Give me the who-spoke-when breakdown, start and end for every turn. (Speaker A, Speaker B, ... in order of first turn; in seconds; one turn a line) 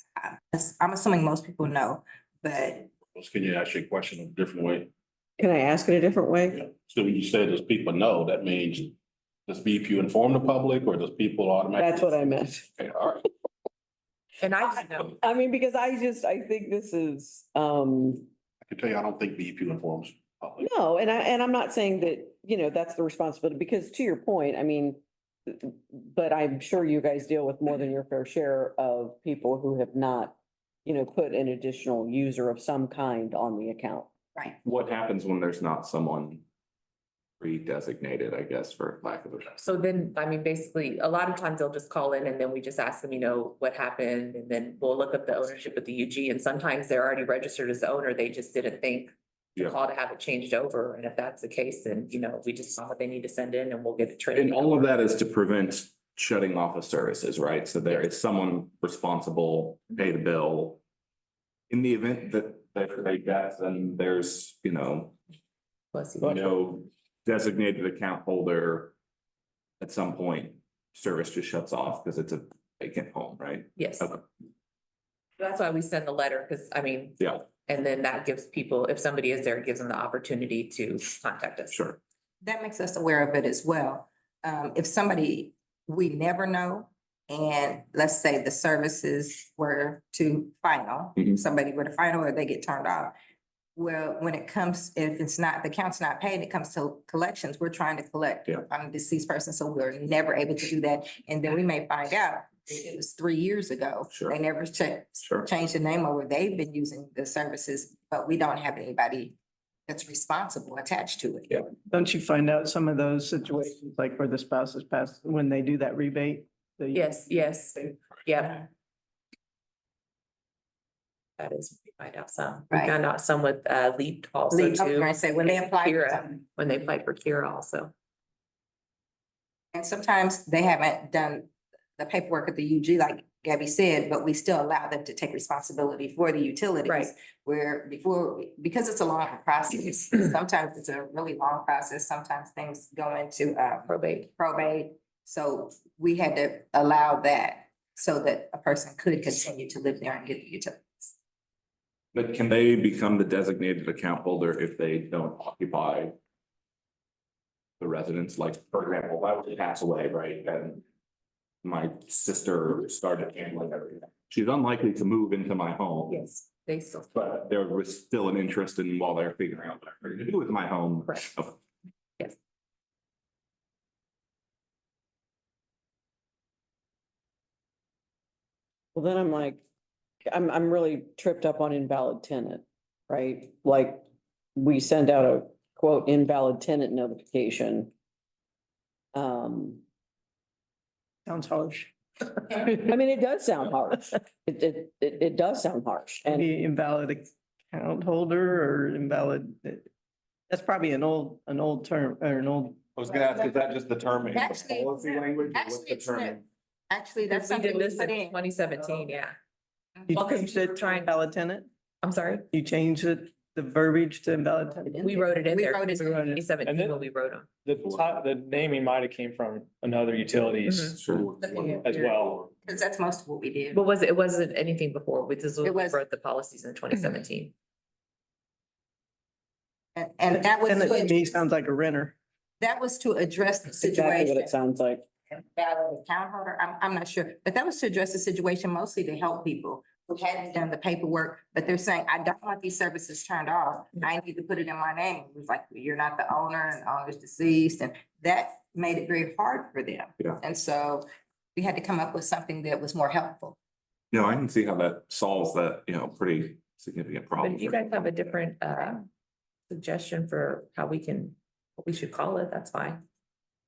Speaker A: 0.1-2.9
Speaker B: 3.0-4.9
Speaker C: 5.4-6.6
Speaker B: 6.5-8.9
Speaker B: 9.5-13.2
Speaker C: 11.8-12.7
Speaker D: 14.4-15.2
Speaker C: 15.2-18.3
Speaker B: 18.6-20.7
Speaker C: 20.6-34.1
Speaker E: 34.6-36.4
Speaker E: 37.4-39.6
Speaker D: 39.6-54.9
Speaker E: 54.3-60.8
Speaker E: 61.7-65.2
Speaker D: 65.9-66.5
Speaker E: 66.2-68.9
Speaker E: 69.8-74.2
Speaker D: 73.8-74.1
Speaker D: 75.4-81.8
Speaker E: 77.2-77.4
Speaker E: 81.7-82.0
Speaker A: 82.4-93.1
Speaker A: 93.8-109.3
Speaker E: 104.1-104.4
Speaker A: 109.9-111.7
Speaker F: 111.9-117.0
Speaker D: 116.9-118.7
Speaker D: 121.4-127.9
Speaker A: 124.5-126.4
Speaker A: 129.7-151.1
Speaker D: 136.8-137.1
Speaker D: 143.9-144.3
Speaker E: 152.1-156.2
Speaker E: 157.8-160.8
Speaker E: 161.6-166.2
Speaker D: 166.1-167.1
Speaker E: 167.1-171.6
Speaker C: 178.9-179.6
Speaker C: 180.3-184.0
Speaker C: 184.6-187.9
Speaker C: 189.1-189.8
Speaker F: 191.2-191.9
Speaker C: 192.8-196.5
Speaker F: 196.3-199.9
Speaker F: 200.5-202.8
Speaker E: 202.9-206.4
Speaker A: 204.3-208.4
Speaker D: 207.2-209.3
Speaker A: 209.9-210.4
Speaker F: 210.1-211.7
Speaker D: 210.1-211.1
Speaker D: 212.0-212.5
Speaker F: 212.5-215.1
Speaker A: 214.8-216.3
Speaker D: 215.0-217.5
Speaker F: 216.1-216.4
Speaker G: 216.7-216.9
Speaker G: 217.6-221.0
Speaker D: 220.7-221.0
Speaker E: 221.0-221.3
Speaker B: 221.0-222.5
Speaker A: 221.4-223.8
Speaker G: 221.8-222.3
Speaker D: 223.7-227.5
Speaker A: 225.6-226.0
Speaker A: 229.9-231.5
Speaker F: 230.3-232.2
Speaker A: 232.6-234.5
Speaker C: 233.8-235.0
Speaker A: 235.3-253.6
Speaker E: 254.1-258.3
Speaker D: 257.4-259.0
Speaker D: 259.7-263.0